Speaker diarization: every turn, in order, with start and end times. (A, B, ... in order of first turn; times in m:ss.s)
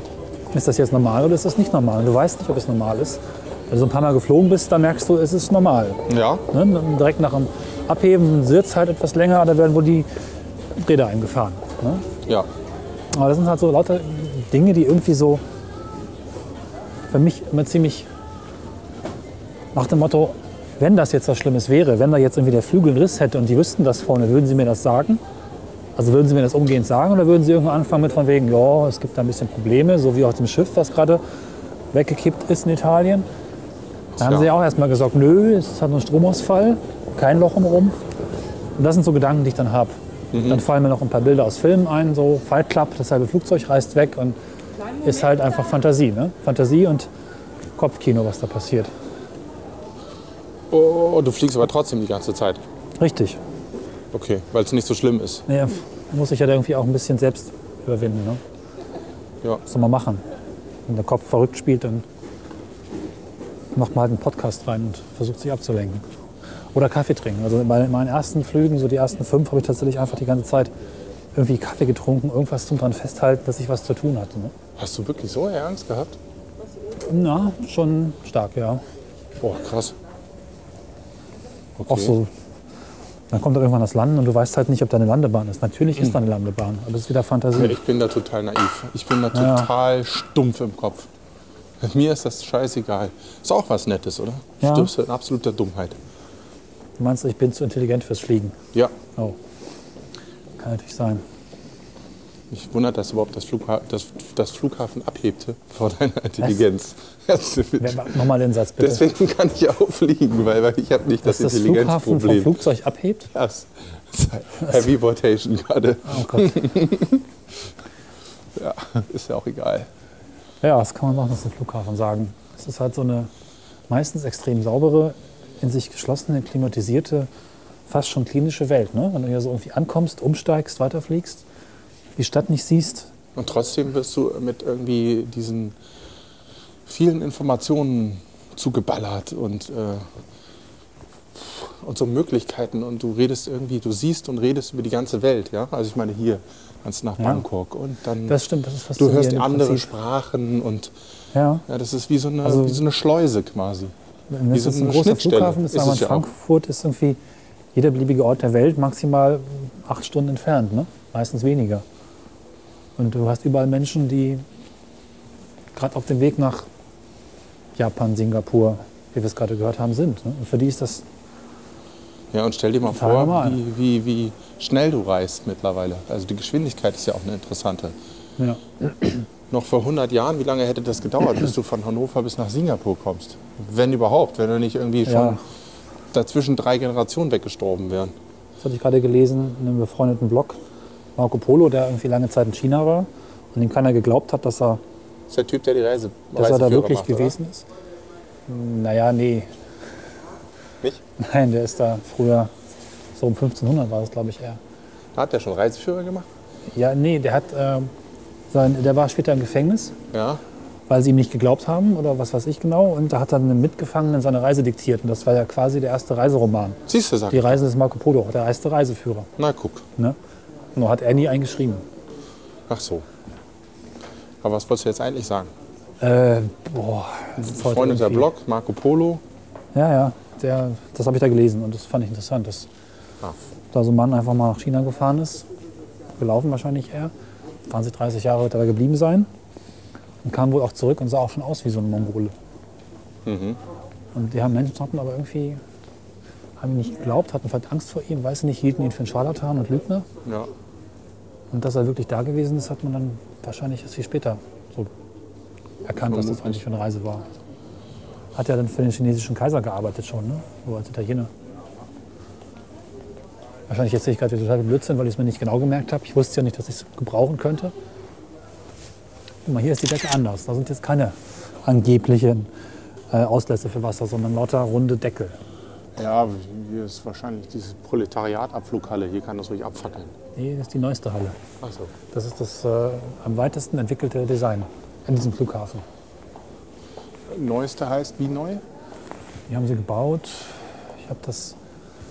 0:00.5-0:10.1 A
0:06.1-0:06.4 B
0:10.8-0:12.0 A
0:13.1-0:15.4 A
0:17.1-0:18.1 A
0:19.7-0:25.2 A
0:26.0-0:31.2 A
0:31.9-0:33.3 A
0:34.2-0:34.5 B
0:34.2-0:38.0 A
0:38.8-0:39.9 A
0:40.3-0:40.6 B
0:40.5-0:44.4 A
0:45.0-0:47.1 A
0:47.8-0:48.9 A
0:50.7-0:52.6 B
0:53.0-0:53.4 A
0:54.1-0:55.4 B
0:55.5-0:58.4 A
0:59.6-1:00.2 A
1:00.8-1:02.0 A
1:03.7-1:06.0 A
1:06.7-1:10.7 A
1:11.3-1:14.5 A
1:14.8-1:16.2 B
1:17.1-1:18.8 A
1:19.4-1:20.0 B
1:21.8-1:22.1 B
1:21.9-1:22.3 A
1:23.3-1:27.8 A
1:27.5-1:31.1 B
1:29.3-1:29.7 A
1:31.8-1:36.0 B
1:34.6-1:34.9 A
1:37.0-1:38.6 A
1:40.6-1:41.2 A
1:42.5-1:48.2 B
1:47.8-1:49.0 A
1:48.8-1:52.6 B
1:51.2-1:53.3 A
1:53.3-1:57.3 B
1:56.0-1:56.6 A
1:58.5-1:59.9 B
2:00.6-2:03.3 A
2:03.9-2:07.3 A
2:07.9-2:11.4 A
2:12.2-2:13.1 A
2:13.4-2:15.7 B
2:16.8-2:20.0 B
2:21.3-2:28.4 B
2:27.2-2:27.4 A
2:28.3-2:29.9 A
2:29.0-2:30.9 B
2:31.3-2:31.6 A
2:31.7-2:33.9 B
2:32.4-2:32.8 A
2:34.3-2:37.2 A
2:34.5-2:36.3 B
2:37.7-2:41.8 A
2:43.0-2:44.4 A
2:45.7-2:46.7 A
2:47.8-2:51.0 A
2:52.3-2:58.0 B
2:52.9-2:53.6 A
2:59.5-3:05.4 B
3:05.0-3:05.4 A
3:06.1-3:08.1 B
3:08.6-3:10.6 A
3:11.2-3:14.8 A
3:15.3-3:17.3 B
3:16.4-3:17.6 A
3:18.5-3:19.5 A
3:21.2-3:22.5 A
3:23.1-3:24.6 A
3:25.1-3:26.3 B
3:26.7-3:27.9 A
3:28.5-3:29.9 A
3:30.1-3:30.4 B
3:30.9-3:39.3 A
3:36.9-3:37.6 B
3:39.4-3:39.8 B
3:40.7-3:41.8 A
3:42.7-3:43.0 B
3:44.4-3:45.5 B
3:46.0-3:48.3 A
3:47.4-3:49.2 B
3:49.7-3:52.7 A
3:53.7-3:55.4 A
3:56.2-3:57.1 A
3:57.7-3:59.3 A
4:00.2-4:02.3 A
4:03.2-4:03.6 B
4:04.1-4:05.6 A
4:06.6-4:10.0 A
4:10.2-4:10.5 B
4:11.5-4:14.9 A
4:15.8-4:17.2 A
4:16.0-4:16.6 B
4:18.3-4:21.3 A
4:23.7-4:27.7 A
4:29.4-4:32.5 A
4:33.1-4:35.4 A
4:36.0-4:40.1 B
4:40.4-4:41.4 A
4:41.6-4:41.9 B
4:42.1-4:45.8 A
4:47.3-4:48.6 B
4:49.5-4:51.6 A